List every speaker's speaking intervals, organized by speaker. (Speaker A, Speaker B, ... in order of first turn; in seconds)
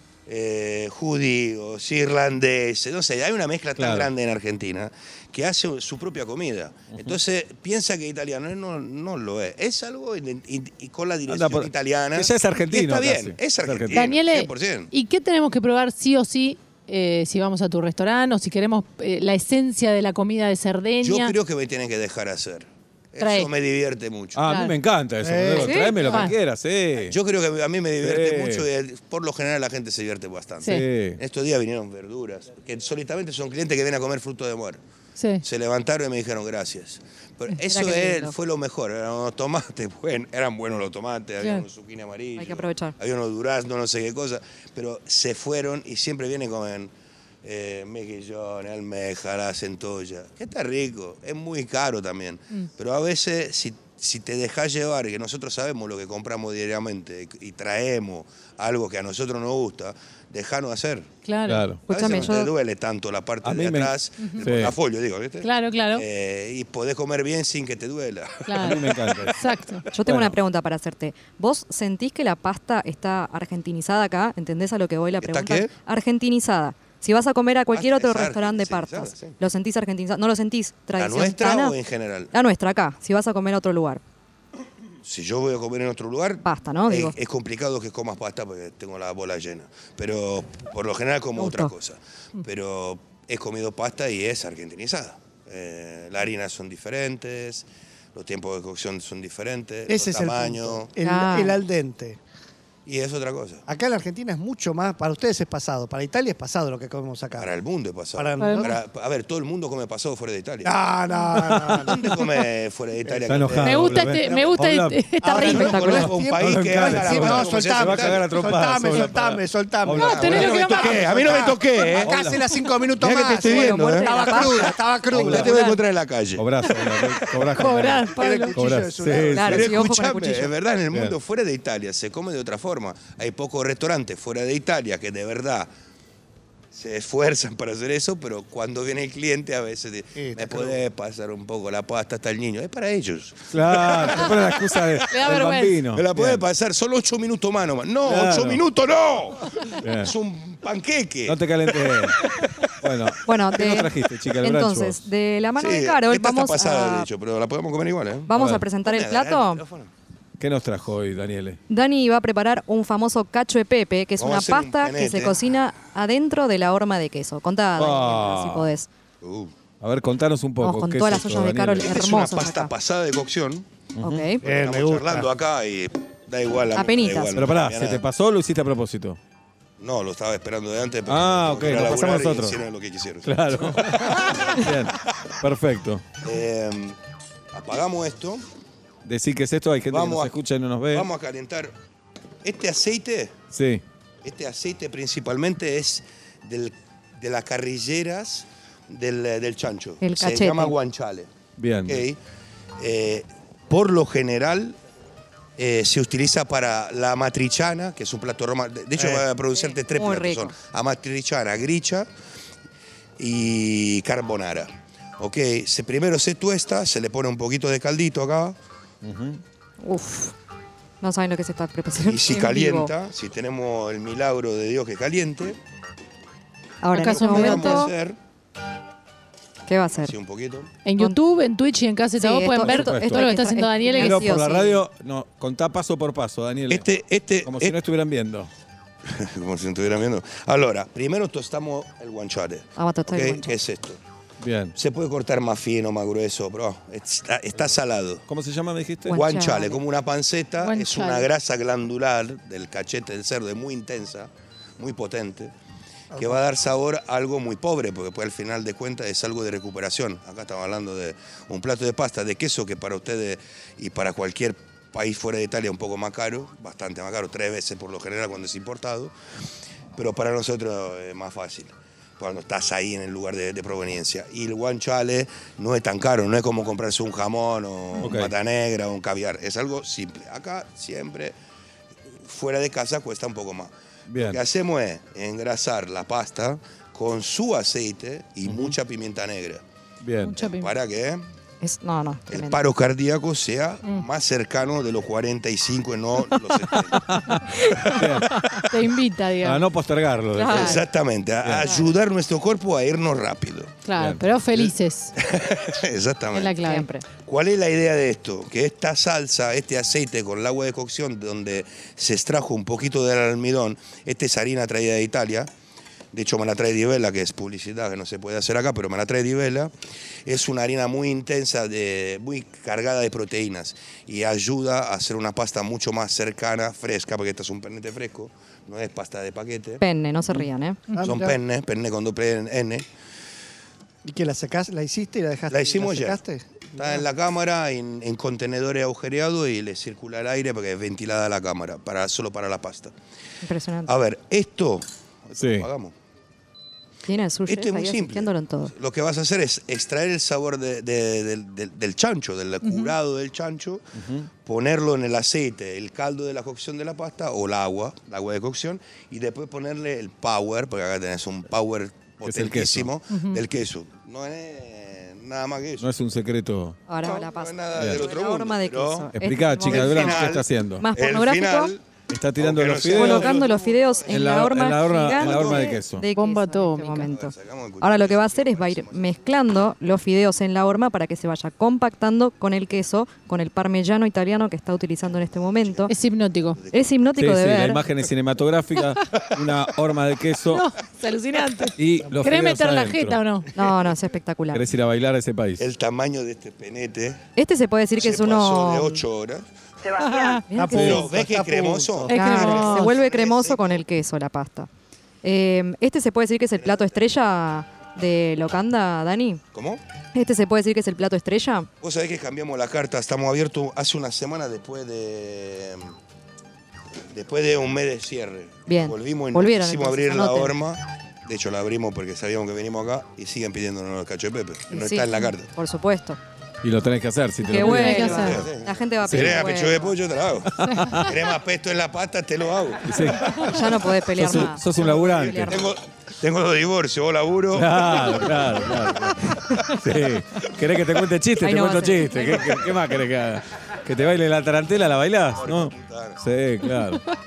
Speaker A: 0.3-14.9, 21.0-24.4, 27.0-34.8, 35.4-46.9, 47.4-61.1, 61.9-69.2, 75.2-75.7, 77.7-79.4, 81.0-82.3, 85.0-100.9, 102.9-103.6, 107.4-110.7, 111.8-114.0, 115.4-118.2, 120.1-122.2, 123.0-127.2, 129.4-135.7, 136.7-152.7, 155.6-158.3, 158.8-159.9, 164.2-165.4, 169.2-169.5, 171.8-173.7, 174.4-178.0, 179.8-184.7, 186.2-187.0, 187.5-188.5, 189.9-190.3, 190.9-191.7, 192.4-193.4, 194.2-201.3, 201.8-202.2, 202.8-204.8, 205.6-212.1, 213.2-218.6, 222.0-225.6, 227.0-228.2, 230.0-230.7, 236.7-237.8, 239.1-244.0, 244.8-248.2, 249.1-255.5, 256.2-269.1, 269.9-281.4, 282.2-289.6, 290.4-291.3, 292.3-297.3, 298.0-298.2, 300.5-303.8, 305.2-306.6, 307.2-315.5, 316.1-319.7, 320.3-329.8, 331.0-332.9, 335.5-336.2, 336.8-342.9, 343.9-345.9, 347.5-365.9, 367.0-369.1, 369.6-371.9, 372.4-374.4, 375.0-375.8, 377.0-379.0, 385.6-385.9, 386.6-386.9, 395.6-397.2, 398.0-399.5, 400.8-403.8, 406.6-407.0, 409.5-409.8, 411.8-415.9, 417.1-425.5, 427.9-433.7, 435.5-438.7, 445.4-446.2
Speaker B: 3.8-4.1, 11.3-14.1, 24.4-27.2, 28.0-28.7, 30.6-31.2, 61.5-61.8, 63.4-64.8, 68.6-69.3, 70.1-70.4, 111.3-112.0, 113.3-120.6, 122.0-122.4, 126.4-129.7, 143.5-146.4, 148.1-148.6, 149.8-150.1, 151.3-152.3, 152.8-155.0, 158.3-158.6, 160.4-161.6, 167.8-168.7, 169.8-171.9, 174.0-174.3, 177.3-179.2, 181.1-182.6, 183.2-186.1, 189.1-191.1, 193.5-193.8, 201.6-202.1, 219.0-219.4, 232.7-233.3, 233.9-236.9, 237.4-238.5, 244.4-244.8, 248.3-249.2, 278.0-278.3, 284.1-284.4, 288.5-288.8, 290.0-290.4, 297.1-298.7, 299.4-300.9, 301.4-301.8, 345.4-345.7, 354.0-354.3, 362.2-362.9, 365.8-366.8, 367.8-368.0, 369.1-370.9, 372.1-373.3, 374.1-376.1, 387.2-390.7, 391.8-393.2, 394.5-395.7, 400.7-401.1, 426.6-428.4, 429.1-429.5, 430.6-431.1, 432.9-433.4, 434.1-435.7, 437.5-447.0
Speaker C: 13.9-21.4, 23.2-23.5, 24.5-24.8, 26.0-26.4, 35.2-35.5, 41.4-41.6, 61.2-61.7, 64.2-64.5, 65.4-66.0, 68.5-69.9, 108.4-108.8, 113.6-115.8, 120.0-121.4, 127.5-128.6, 145.1-145.8, 226.9-227.9, 230.8-234.3, 250.6-251.3, 290.2-290.7, 297.9-299.6, 303.9-305.1, 306.3-306.9, 352.6-352.9, 363.1-363.4, 376.1-377.1, 385.9-386.6, 390.5-393.5, 400.0-400.4, 402.1-402.9, 427.6-428.4
Speaker D: 25.2-26.3, 99.9-102.2, 103.7-107.5, 108.2-108.8, 110.6-112.3, 114.2-114.6, 115.2-125.7, 128.1-129.7, 140.2-140.8, 174.4-175.3, 256.1-256.4, 330.9-331.4, 334.0-337.0, 400.5-402.4
Speaker E: 25.6-26.0, 37.7-38.4, 42.4-43.0, 61.9-62.5, 69.9-81.8, 82.3-84.0, 86.4-87.2, 91.4-91.7, 101.0-101.6, 115.4-116.0, 123.2-125.8, 129.3-130.5, 153.2-157.1, 158.3-159.6, 161.7-168.9, 170.6-172.7, 174.0-174.4, 176.8-177.4, 200.0-200.8, 209.7-210.6, 219.8-220.3, 221.0-222.9, 226.8-227.9, 229.7-230.1, 232.2-234.8, 242.8-243.6, 249.1-249.8, 291.6-292.6, 297.7-298.0, 300.4-300.8, 301.6-301.9, 306.6-307.1, 329.8-330.8, 343.4-343.9, 347.1-348.7, 366.9-371.7, 372.9-385.9, 386.7-387.8, 393.6-394.6, 397.4-399.0, 400.5-401.1, 402.1-404.7, 405.2-409.4, 410.1-411.7, 418.7-420.5, 424.7-426.2, 427.4-429.9, 433.4-435.7, 441.4-442.7